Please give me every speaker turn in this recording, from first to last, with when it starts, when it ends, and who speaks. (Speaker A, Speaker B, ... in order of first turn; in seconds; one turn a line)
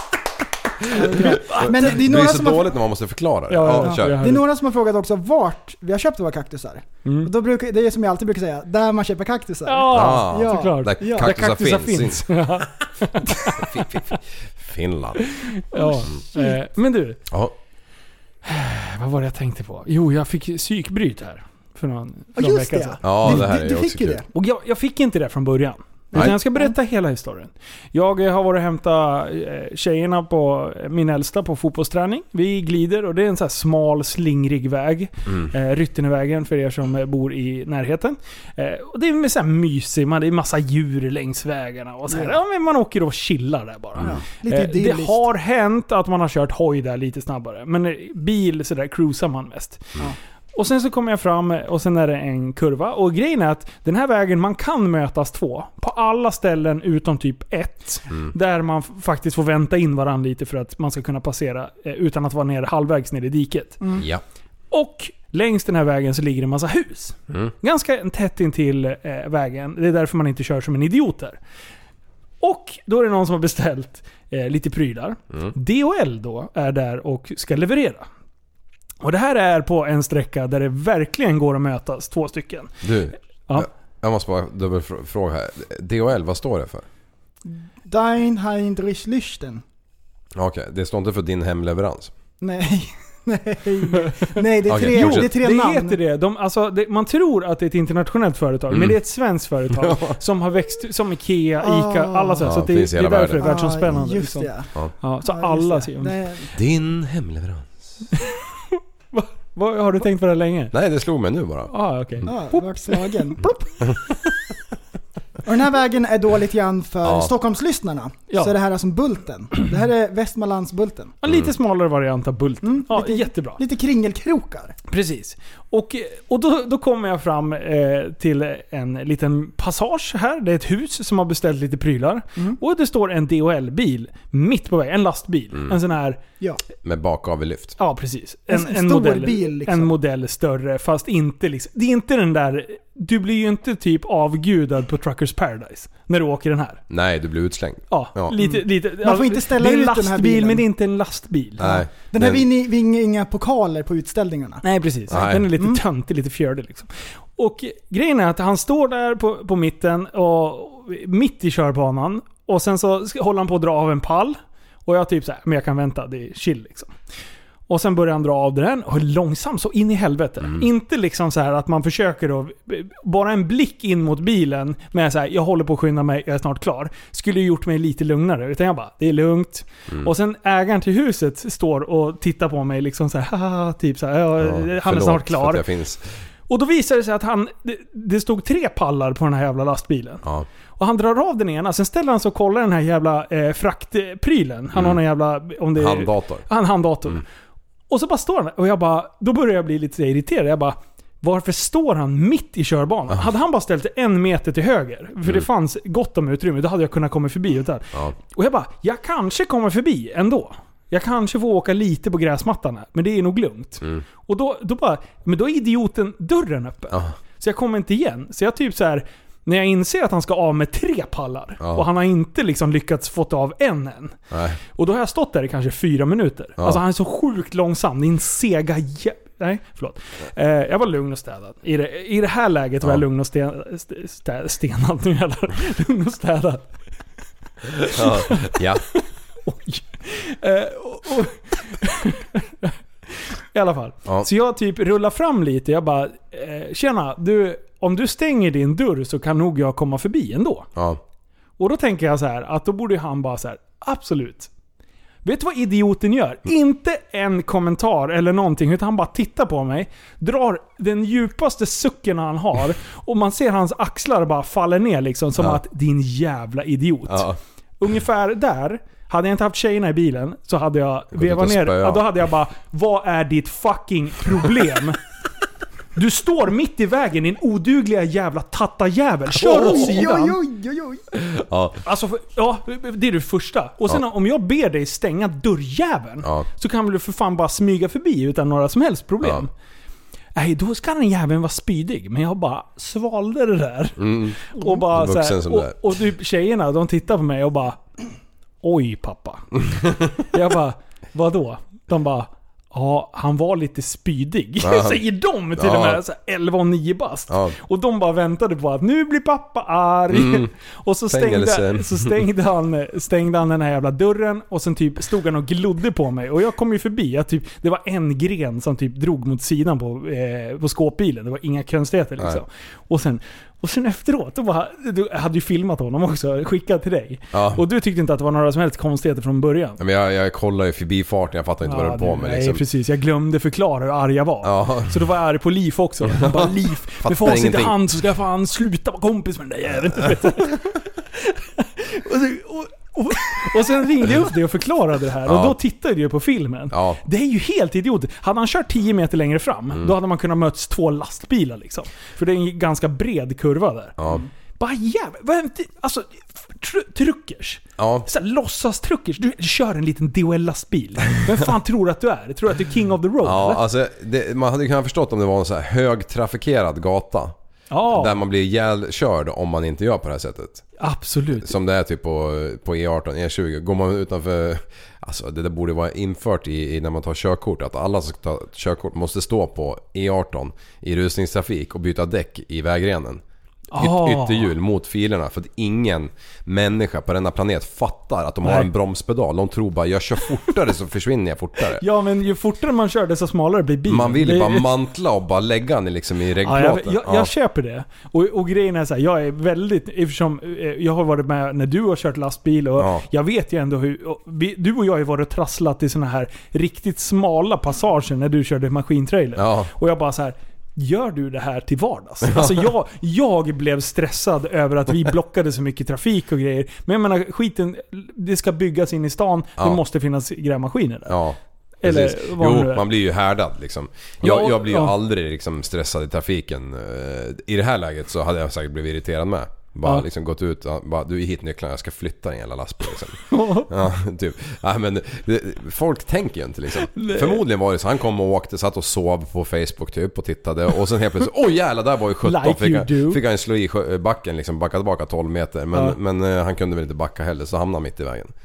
Speaker A: 0.9-2.7
Speaker B: 0.9-2.0
Speaker C: 1.1-4.2
Speaker B: 3.5-4.5
Speaker A: 3.6-11.3
Speaker B: 7.0-7.3
Speaker B: 9.7-14.2
Speaker C: 9.9-12.6
Speaker C: 13.6-15.3
Speaker B: 15.4-17.2
Speaker A: 15.7-16.6
Speaker C: 17.3-17.6
Speaker B: 18.4-23.5
Speaker A: 22.4-24.2
Speaker C: 23.0-24.2
Speaker B: 24.3-49.9
Speaker A: 26.1-26.8
Speaker A: 42.1-42.4
Speaker C: 44.0-44.2
Speaker A: 44.0-45.2
Speaker B: 50.5-63.8
Speaker C: 64.0-64.2
Speaker B: 64.7-71.4
Speaker B: 72.4-78.1
Speaker B: 79.0-82.8
Speaker C: 82.8-86.8
Speaker A: 87.5-89.6
Speaker C: 90.3-92.1
Speaker A: 92.4-96.0
Speaker C: 94.7-95.3
Speaker B: 94.8-104.5
Speaker C: 98.7-99.0
Speaker C: 99.7-100.2
Speaker A: 101.6-102.5
Speaker C: 102.4-103.9
Speaker A: 103.4-104.7
Speaker B: 105.0-106.1
Speaker A: 105.2-106.5
Speaker C: 106.5-107.9
Speaker B: 108.1-110.7
Speaker C: 110.7-111.7
Speaker B: 111.7-114.0
Speaker A: 112.2-113.4
Speaker A: 115.5-121.1
Speaker C: 117.0-117.3
Speaker B: 121.2-123.6
Speaker A: 122.6-124.8
Speaker B: 124.9-136.2
Speaker C: 136.8-137.8
Speaker B: 137.8-146.8
Speaker A: 138.5-139.9
Speaker C: 146.9-148.4
Speaker B: 147.9-151.8
Speaker A: 148.4-150.7
Speaker C: 151.6-152.4
Speaker A: 151.6-154.6
Speaker B: 154.6-166.9
Speaker C: 155.1-155.5
Speaker A: 155.2-155.8
Speaker B: 167.7-185.7
Speaker C: 184.4-186.0
Speaker B: 186.5-190.2
Speaker B: 190.8-197.2
Speaker C: 194.7-195.0
Speaker C: 195.8-196.5
Speaker B: 197.9-224.2
Speaker C: 221.6-221.9
Speaker C: 224.3-224.6
Speaker B: 224.8-236.7
Speaker C: 237.7-238.8
Speaker B: 237.9-242.8
Speaker B: 243.5-250.7
Speaker C: 250.8-251.0
Speaker B: 251.6-254.5
Speaker B: 255.2-267.3
Speaker C: 267.1-267.4
Speaker B: 267.8-275.0
Speaker C: 271.1-272.1
Speaker B: 276.0-280.4
Speaker A: 279.3-281.1
Speaker C: 279.5-280.0
Speaker C: 281.1-281.8
Speaker B: 281.8-289.5
Speaker C: 286.2-286.5
Speaker B: 290.4-297.8
Speaker C: 294.0-295.9
Speaker B: 298.6-299.6
Speaker B: 300.3-329.8
Speaker C: 304.6-305.0
Speaker C: 305.6-306.0
Speaker C: 307.3-307.6
Speaker C: 310.1-310.5
Speaker C: 311.1-312.2
Speaker C: 322.2-322.4
Speaker C: 327.3-327.6
Speaker C: 329.8-332.6
Speaker B: 331.6-354.0
Speaker C: 334.4-335.0
Speaker C: 336.1-337.8
Speaker C: 345.2-345.6
Speaker C: 346.7-347.0
Speaker C: 354.0-354.2
Speaker B: 354.6-363.6
Speaker C: 357.8-358.1
Speaker C: 363.2-367.4
Speaker B: 367.7-368.1
Speaker C: 367.9-370.6
Speaker B: 370.8-371.5
Speaker C: 371.4-383.2
Speaker B: 383.7-384.5
Speaker C: 383.8-391.8
Speaker B: 388.4-388.7
Speaker B: 391.8-394.7
Speaker C: 393.9-397.3
Speaker B: 396.4-421.1
Speaker C: 402.8-403.1
Speaker C: 409.4-409.7
Speaker C: 412.2-412.7
Speaker C: 421.1-448.3
Speaker B: 421.8-422.9
Speaker B: 424.2-425.0
Speaker B: 433.3-433.7
Speaker B: 436.9-437.4
Speaker B: 442.2-443.2